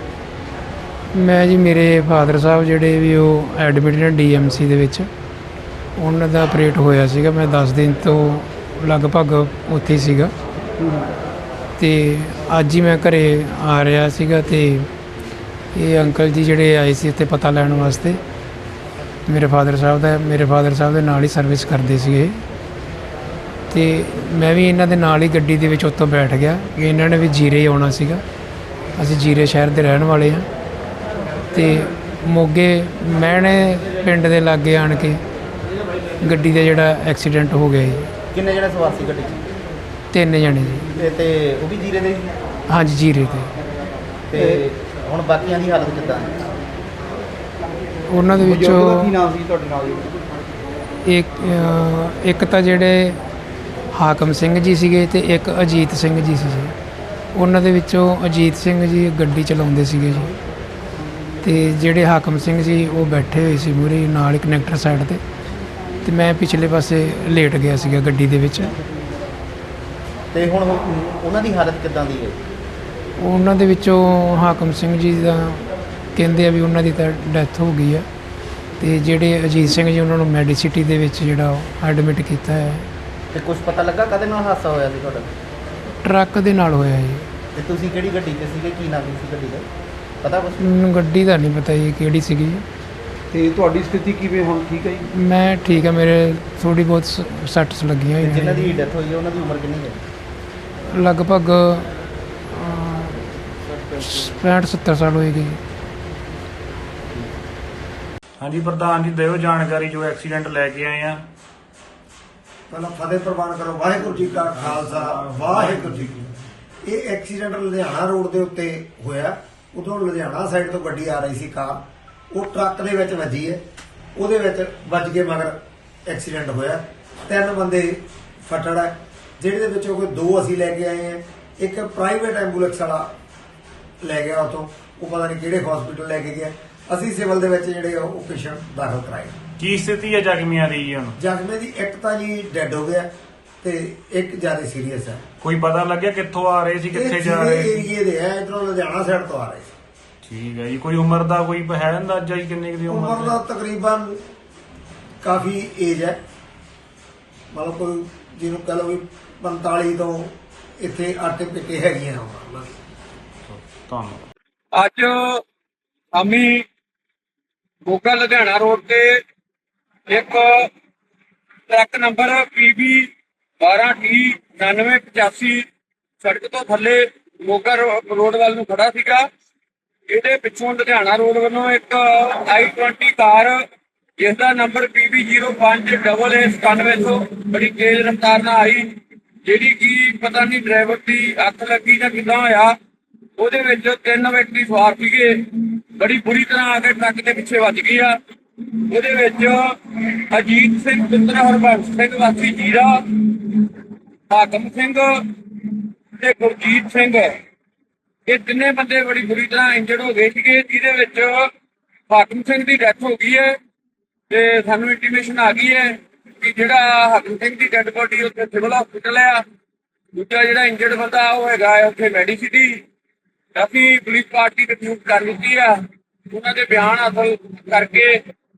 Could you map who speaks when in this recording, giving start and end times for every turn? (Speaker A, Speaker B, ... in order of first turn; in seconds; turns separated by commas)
Speaker A: 1.1-5.1, Speaker A: 6.0-10.3, Speaker B: 10.8-11.1, Speaker A: 11.8-14.9, Speaker A: 15.7-18.2, Speaker A: 19.3-22.4, Speaker A: 23.7-28.2, Speaker A: 29.0-30.5, Speaker A: 31.5-35.2, Speaker A: 36.2-38.1, Speaker C: 38.3-39.5, Speaker A: 40.1-40.9, Speaker C: 40.9-42.3, Speaker A: 42.7-43.5, Speaker C: 44.3-46.4, Speaker B: 44.4-44.6, Speaker A: 48.1-49.1, Speaker B: 48.4-50.2, Speaker A: 51.0-53.2, Speaker A: 53.9-56.7, Speaker A: 57.3-60.4, Speaker A: 61.4-65.2, Speaker A: 66.0-68.7, Speaker C: 70.3-72.4, Speaker A: 73.2-78.1, Speaker A: 78.8-82.9, Speaker C: 83.3-85.3, Speaker A: 86.0-87.3, Speaker C: 87.5-89.7, Speaker C: 90.2-90.6, Speaker A: 90.6-92.6, Speaker B: 93.3-95.1, Speaker A: 95.1-98.8, Speaker C: 98.2-100.0, Speaker A: 100.9-101.9, Speaker A: 102.5-103.2, Speaker A: 103.9-105.6, Speaker D: 108.4-111.1, Speaker E: 112.7-116.3, Speaker E: 116.8-123.6, Speaker E: 124.2-133.1, Speaker E: 134.0-139.4, Speaker D: 139.6-141.1, Speaker E: 141.2-143.1, Speaker E: 143.6-145.2, Speaker D: 145.4-147.8, Speaker E: 146.9-149.7, Speaker D: 150.3-153.3, Speaker E: 152.9-154.2, Speaker E: 155.2-156.2, Speaker E: 157.5-162.8, Speaker D: 163.5-164.2, Speaker F: 164.8-165.2, Speaker F: 166.2-166.6, Speaker F: 167.9-169.1, Speaker F: 170.1-170.5, Speaker F: 171.7-173.1, Speaker F: 173.6-175.6, Speaker F: 176.2-179.2, Speaker F: 180.1-183.6, Speaker F: 184.2-188.9, Speaker F: 189.4-192.7, Speaker F: 193.4-198.2, Speaker F: 198.9-203.7, Speaker F: 204.3-205.1, Speaker F: 206.2-207.3, Speaker F: 208.3-211.3, Speaker F: 212.1-213.5, Speaker F: 214.3-219.4, Speaker F: 220.2-222.8, Speaker F: 223.6-225.8, Speaker F: 226.3-228.1